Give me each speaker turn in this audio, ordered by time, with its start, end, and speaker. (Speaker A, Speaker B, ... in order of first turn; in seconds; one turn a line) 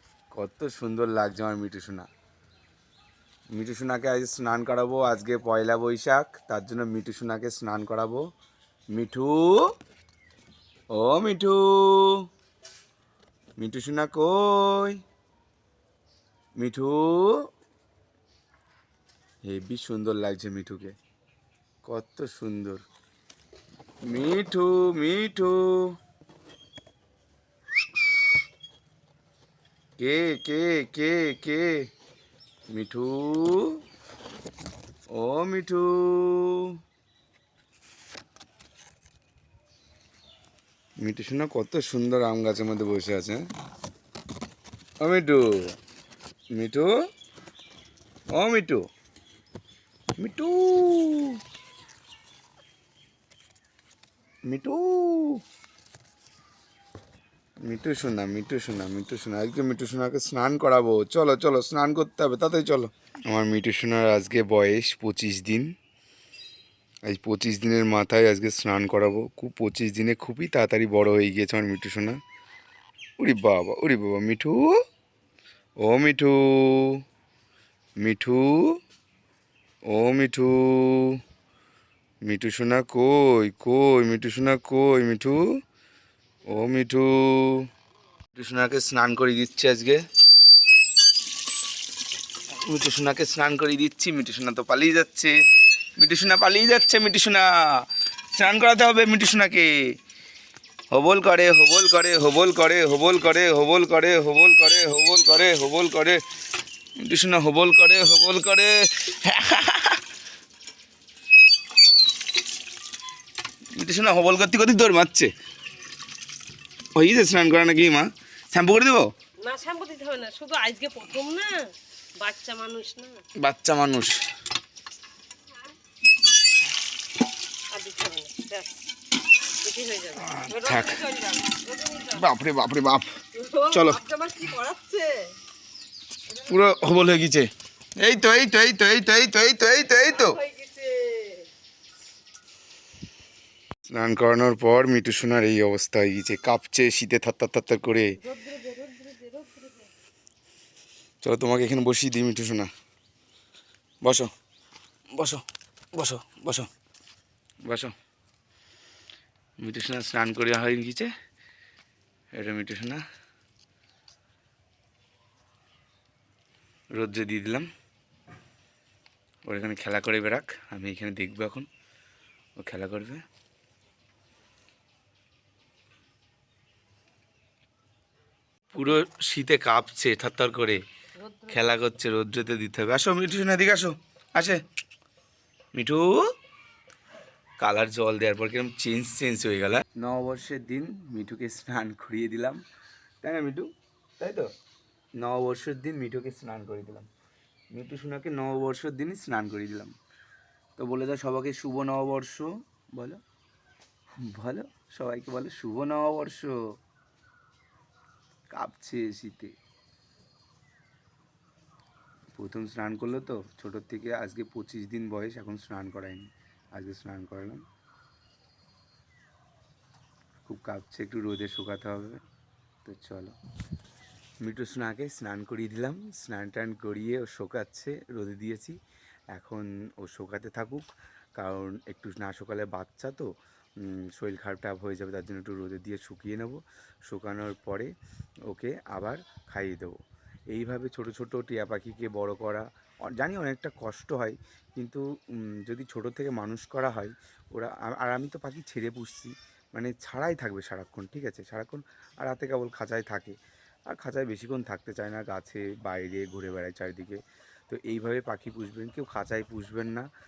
Speaker A: 0.3-2.1
Speaker A: 3.5-8.2
Speaker A: 8.9-9.6
Speaker A: 10.9-12.3
Speaker A: 13.6-15.0
Speaker A: 16.6-17.4
Speaker A: 19.4-20.9
Speaker A: 21.9-22.8
Speaker A: 24.1-25.9
Speaker A: 30.0-31.9
Speaker A: 32.7-33.8
Speaker A: 35.1-36.8
Speaker A: 41.0-43.5
Speaker A: 45.0-45.8
Speaker A: 46.5-46.9
Speaker A: 48.3-48.9
Speaker A: 50.2-51.4
Speaker A: 54.5-55.4
Speaker A: 57.6-65.7
Speaker A: 67.1-72.2
Speaker A: 73.2-74.7
Speaker A: 75.8-77.0
Speaker A: 78.0-78.8
Speaker A: 79.9-81.2
Speaker A: 82.2-85.4
Speaker A: 86.5-87.7
Speaker A: 88.3-90.0
Speaker A: 92.5-95.4
Speaker A: 96.0-99.8
Speaker A: 100.9-106.2
Speaker A: 107.0-110.0
Speaker A: 113.8-115.3
Speaker A: 117.0-119.1
Speaker B: 119.4-123.2
Speaker A: 123.4-124.2
Speaker B: 127.7-128.9
Speaker B: 129.4-132.3
Speaker A: 130.2-131.0
Speaker A: 132.1-133.1
Speaker B: 133.3-135.3
Speaker A: 133.7-134.0
Speaker A: 136.4-140.4
Speaker B: 140.2-141.5
Speaker A: 143.9-148.2
Speaker B: 148.2-149.9
Speaker A: 151.2-152.7
Speaker A: 154.0-154.3
Speaker A: 155.1-156.7
Speaker A: 157.7-157.9
Speaker A: 159.6-161.1
Speaker A: 162.3-163.0
Speaker A: 166.9-167.7
Speaker A: 169.4-171.7
Speaker A: 172.6-173.2
Speaker A: 178.7-180.8
Speaker B: 181.2-181.6
Speaker A: 181.5-184.6
Speaker A: 185.8-186.2
Speaker A: 187.6-192.6
Speaker A: 193.2-194.5
Speaker A: 195.2-197.1
Speaker A: 197.7-199.9
Speaker A: 200.8-203.2
Speaker A: 204.2-206.5
Speaker A: 208.5-209.5
Speaker A: 212.3-217.6
Speaker A: 220.4-222.2
Speaker A: 222.8-223.3
Speaker A: 224.4-228.8
Speaker A: 229.3-233.3
Speaker A: 233.8-237.9
Speaker A: 238.5-240.0
Speaker A: 240.5-253.4
Speaker A: 253.9-260.1